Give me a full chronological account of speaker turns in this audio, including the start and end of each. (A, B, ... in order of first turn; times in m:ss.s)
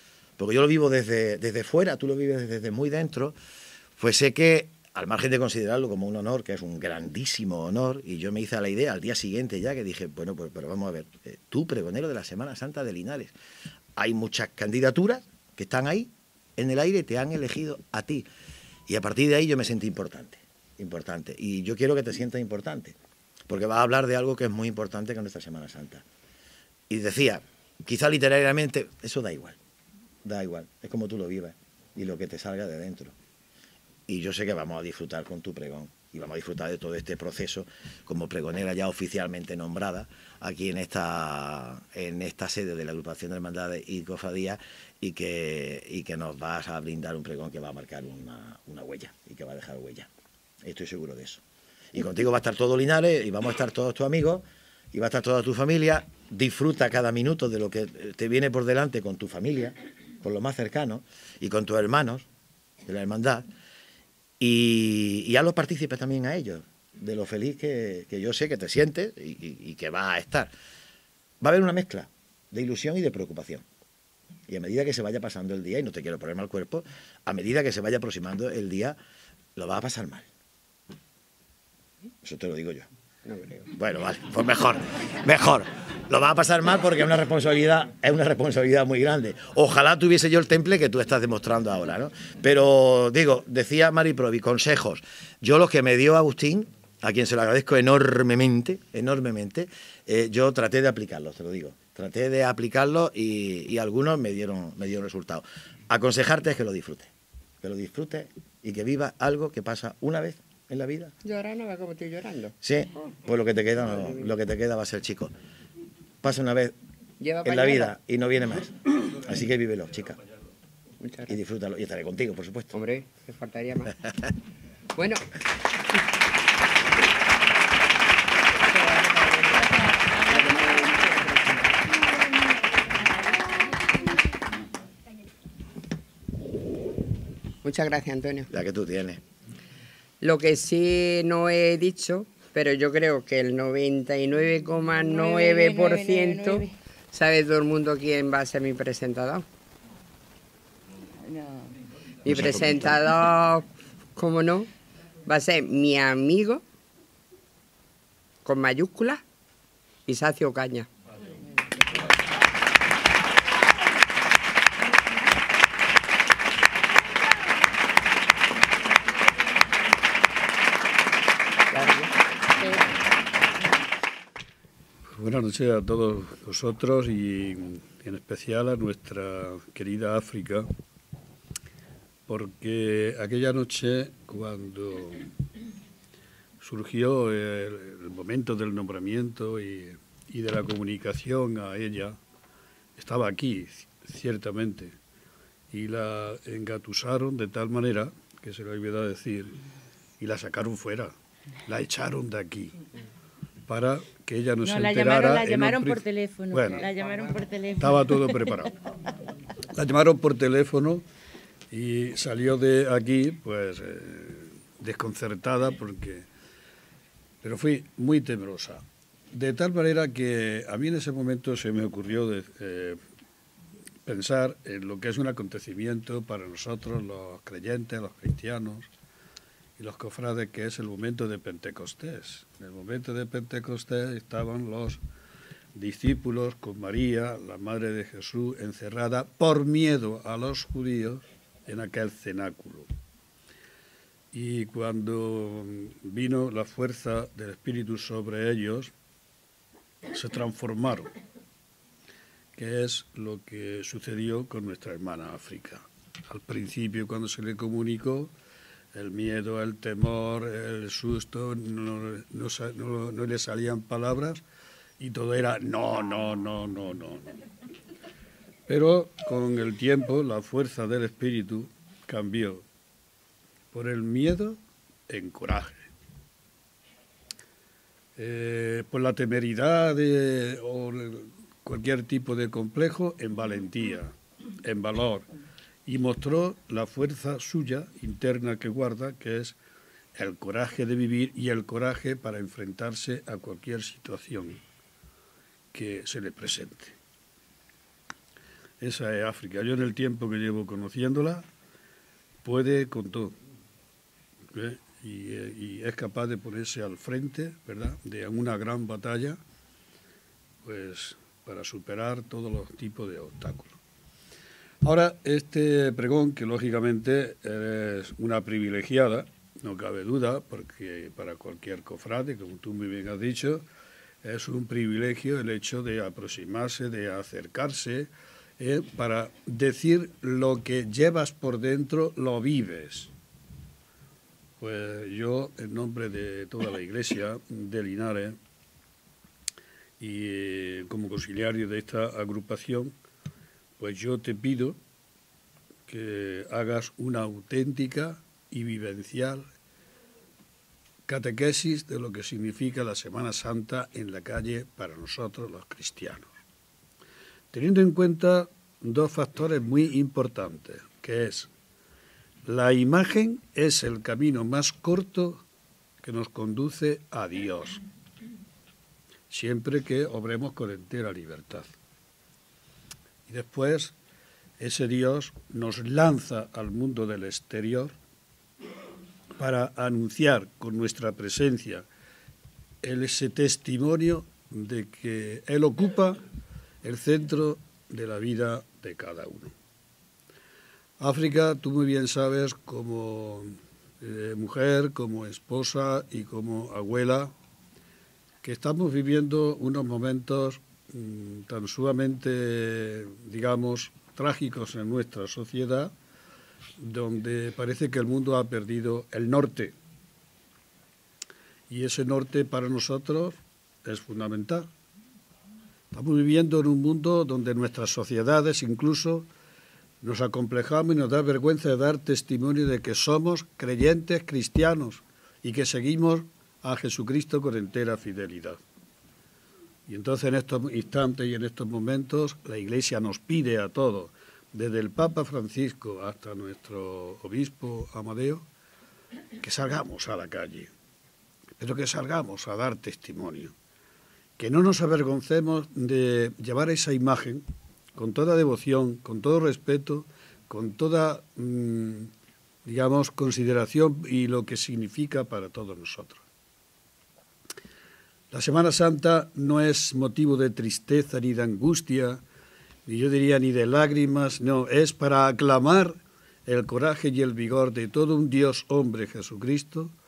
0:00.4-0:03.4 A
0:04.0-0:13.3 A
0:14.0-0:18.2 A
0:18.9-0:23.0 A
0:23.5-0:26.0 A
0:26.9-0:29.6 A
0:30.2-0:33.2 A
0:34.1-0:50.1 A
0:50.6-1:02.3 A
1:02.8-1:03.4 A
1:04.4-1:10.5 A
1:11.4-1:13.6 A
1:14.5-1:19.0 A
1:19.6-1:20.3 A
1:22.2-1:22.9 A
1:23.2-1:23.7 B
1:23.7-1:47.1 A
1:47.6-1:51.1 A
1:51.2-1:52.6 B
1:52.6-1:55.3 A
1:56.2-1:56.8 A
1:57.2-1:57.9 B
1:57.4-2:00.2 A
2:01.0-2:01.3 B
2:01.3-2:02.8 A
2:02.7-2:03.9 B
2:05.0-2:05.2 B
2:08.6-2:11.9 B
2:09.6-2:10.9 C
2:17.6-2:18.5 B
2:18.5-2:19.2 A
2:20.2-2:29.4 B
2:25.0-2:26.8 C
2:31.2-2:31.8 C
2:32.2-2:32.9 A
2:32.3-2:34.7 B
2:35.2-2:36.6 B
2:38.4-2:39.2 B
2:40.1-2:40.9 B
2:51.7-2:52.1 B
2:55.2-3:00.7 D
3:02.3-3:05.3 D
3:06.6-3:12.2 D
3:13.0-3:15.0 D
3:15.7-3:19.6 D
3:20.2-3:21.1 D
3:21.7-3:22.8 D
3:23.7-3:26.9 D
3:24.6-3:28.7 C
3:27.8-3:28.8 D
3:29.7-3:31.0 D
3:31.7-3:36.3 D
3:37.4-3:43.0 D
3:44.0-3:48.9 D
3:49.8-3:55.0 D
3:55.7-4:02.9 D
4:04.3-4:08.9 D
4:10.1-4:11.1 D
4:12.6-4:18.3 D
4:18.9-4:24.4 D
4:25.0-4:27.4 D
4:28.7-4:32.6 D
4:33.7-4:35.9 D
4:38.2-4:45.3 D
4:45.9-4:49.6 D
4:50.2-4:54.6 D
4:55.7-4:57.0 D
4:58.8-5:01.5 D
5:02.4-5:03.4 D
5:04.5-5:09.4 D
5:10.6-5:13.8 D
5:14.8-5:23.6 D
5:24.2-5:33.1 D
5:34.6-5:38.4 D
5:40.0-5:42.9 D
5:43.8-5:44.8 D
5:45.9-5:49.5 D
5:51.1-5:56.3 D
5:57.5-6:01.5 D
6:02.4-6:05.4 D
6:06.0-6:07.8 D
6:09.3-6:11.7 D
6:13.3-6:14.0 D
6:14.6-6:18.0 D
6:19.4-6:21.9 D
6:22.8-6:26.2 D
6:26.8-6:29.5 D
6:31.0-6:37.3 D
6:38.4-6:45.9 D
6:46.8-6:49.8 D
6:51.7-6:54.7 D
6:55.9-6:59.3 D
7:00.0-7:08.6 D
7:09.9-7:18.4 D
7:19.4-7:20.7 D
7:21.6-7:23.5 D
7:24.4-7:27.4 D
7:28.0-7:32.1 D
7:32.6-7:36.2 D
7:38.3-7:42.2 D
7:42.9-7:49.9 D